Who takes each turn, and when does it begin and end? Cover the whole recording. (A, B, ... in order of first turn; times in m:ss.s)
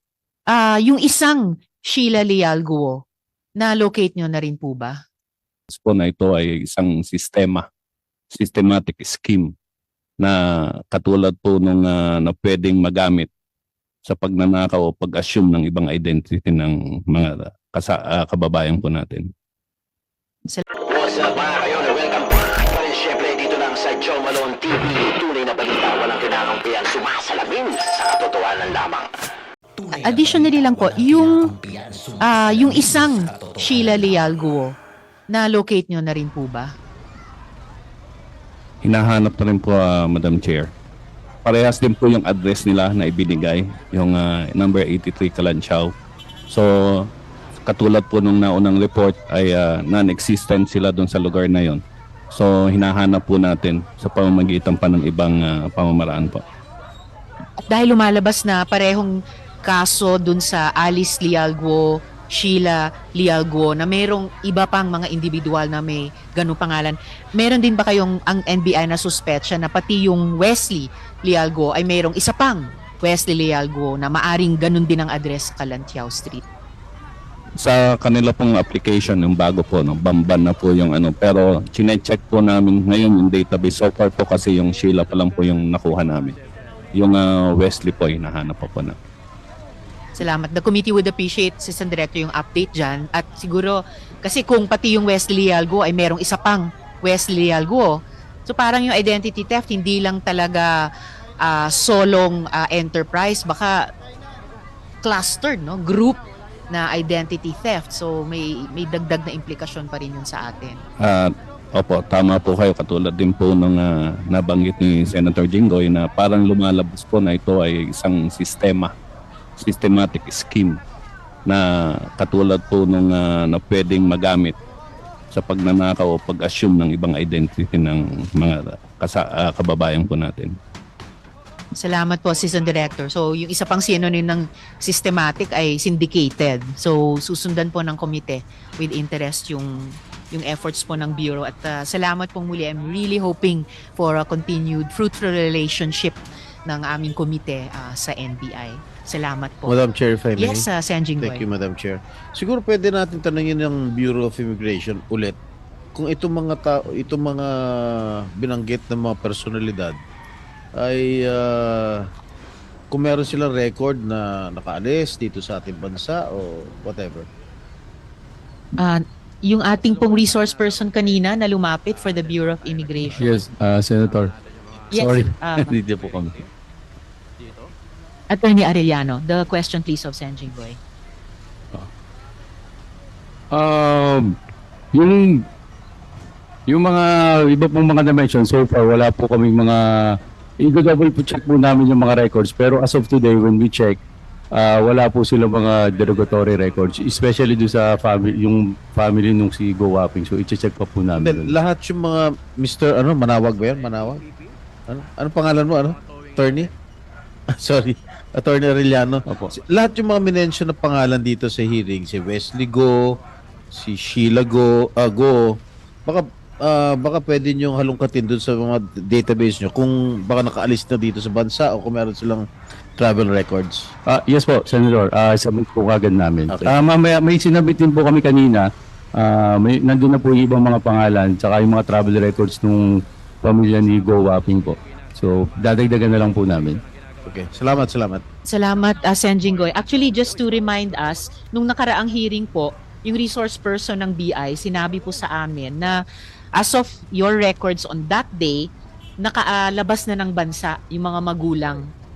0:00.5-0:03.0 A
0:03.6-0:05.0 A
0:05.7-0:07.6 B
0:08.3-0:09.5 B
0:10.2-0:13.3 B
0:14.0-0:19.3 B
0:20.9-0:29.1 C
0:29.9-0:31.5 A
0:32.2-0:34.8 A
0:35.3-0:36.7 A
0:38.8-0:40.7 B
0:41.4-0:45.9 B
0:46.5-0:47.1 B
0:47.7-0:56.4 B
0:57.7-0:59.1 A
0:59.6-1:16.4 A
1:17.6-1:26.4 B
1:27.0-1:29.0 B
1:30.2-1:40.8 A
1:41.4-1:43.8 A
1:45.0-1:50.8 A
1:51.0-1:58.9 B
1:59.6-2:00.8 B
2:01.4-2:04.6 B
2:05.3-2:10.5 B
2:11.8-2:29.8 A
2:29.7-2:30.7 D
2:30.4-2:31.4 A
2:31.2-2:35.4 D
2:36.0-2:40.0 D
2:40.8-2:42.1 D
2:42.9-2:47.3 D
2:48.8-2:53.3 A
2:53.2-2:54.3 E
2:54.9-2:55.8 A
2:54.9-2:56.4 E
2:58.3-3:00.8 A
3:03.5-3:04.4 E
3:04.9-3:05.4 E
3:06.7-3:14.0 E
3:14.5-3:21.6 E
3:21.2-3:24.2 D
3:24.9-3:26.7 D
3:27.5-3:33.2 D
3:29.3-3:29.5 E
3:33.7-3:43.9 D
3:44.1-3:48.7 E
3:49.2-3:52.9 E
3:53.4-3:56.8 E
3:57.3-3:58.2 D
3:58.5-4:06.0 A
4:06.6-4:08.7 A
4:09.2-4:11.9 A